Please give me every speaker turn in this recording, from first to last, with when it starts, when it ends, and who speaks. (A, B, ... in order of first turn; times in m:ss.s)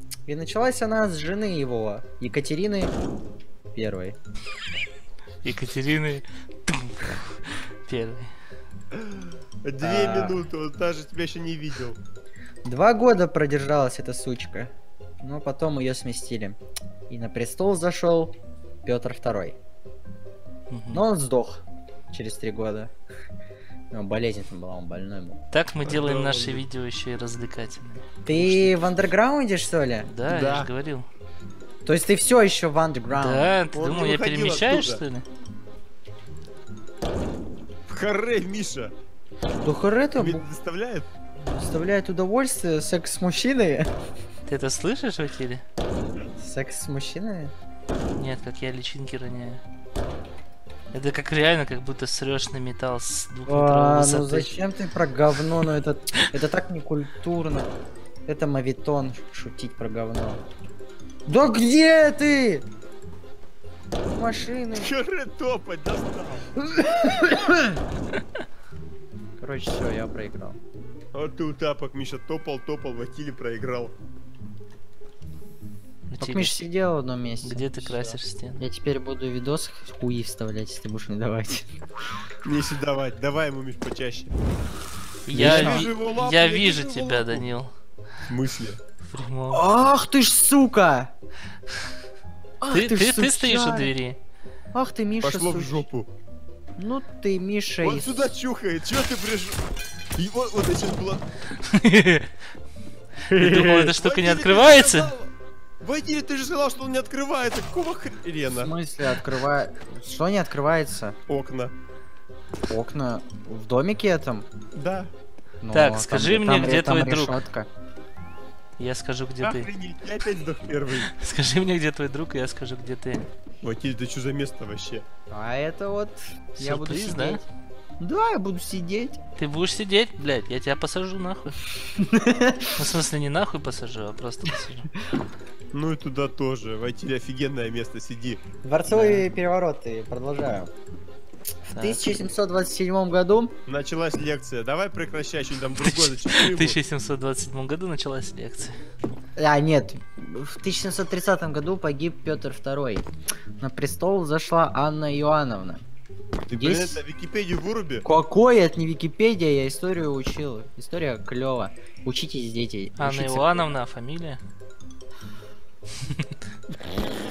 0:00.2-0:02.9 A
0:03.7-0:04.2 A
0:05.4-0:08.3 B
0:08.9-0:12.0 C
0:09.8-0:10.4 A
0:12.6-0:16.6 A
0:17.1-0:19.6 A
0:20.7-0:21.0 B
0:20.9-0:22.9 A
0:23.9-0:25.4 A
0:25.5-0:28.7 B
0:25.8-0:26.6 C
0:28.2-0:30.1 A
0:30.0-0:31.0 B
0:30.2-0:30.7 C
0:31.8-0:33.5 A
0:33.1-0:35.2 B
0:33.7-0:35.0 C
0:37.9-0:38.9 C
0:39.6-0:40.4 A
0:40.2-0:41.1 C
0:41.4-0:43.9 A
0:44.5-0:45.6 B
0:46.4-0:47.5 A
0:48.2-0:49.6 B
0:50.9-0:54.5 B
0:53.5-0:57.7 A
0:58.3-1:00.4 A
1:01.3-1:02.6 A
1:04.1-1:04.9 A
1:04.8-1:06.5 C
1:06.7-1:07.8 A
1:09.4-1:10.6 A
1:11.1-1:13.9 C
1:16.1-1:16.6 B
1:16.2-1:21.8 A
1:17.4-1:18.6 B
1:22.4-1:24.4 C
1:25.2-1:27.7 B
1:25.3-1:25.9 A
1:25.3-1:27.5 C
1:28.3-1:28.8 C
1:29.0-1:29.6 B
1:29.5-1:31.1 A
1:32.6-1:33.9 A
1:32.7-1:34.2 B
1:34.7-1:35.9 A
1:35.2-1:36.1 C
1:36.8-1:38.2 A
1:37.8-1:39.6 C
1:40.2-1:41.3 C
1:41.6-1:42.3 B
1:43.3-1:43.9 A
1:43.3-1:45.1 B
1:43.8-1:48.7 C
1:48.6-1:51.2 A
1:51.3-1:51.7 C
1:52.7-1:54.4 A
1:54.7-1:55.1 C
1:55.6-1:57.7 A
1:55.7-1:57.4 B
1:58.8-1:59.7 B
1:59.4-2:01.1 C
2:01.1-2:03.3 B
2:03.6-2:05.0 C
2:05.3-2:07.4 A
2:06.6-2:07.4 B
2:08.0-2:09.2 A
2:09.4-2:11.6 B
2:12.0-2:12.7 A
2:12.8-2:14.9 B
2:15.7-2:18.4 C
2:18.6-2:20.7 A
2:18.9-2:19.3 B
2:21.7-2:23.5 A
2:21.7-2:22.1 B
2:23.7-2:26.8 C
2:25.8-2:28.8 B
2:29.4-2:33.1 A
2:33.6-2:35.8 A
2:36.5-2:38.0 C
2:36.5-2:37.0 A
2:38.0-2:43.7 A
2:43.0-2:44.4 B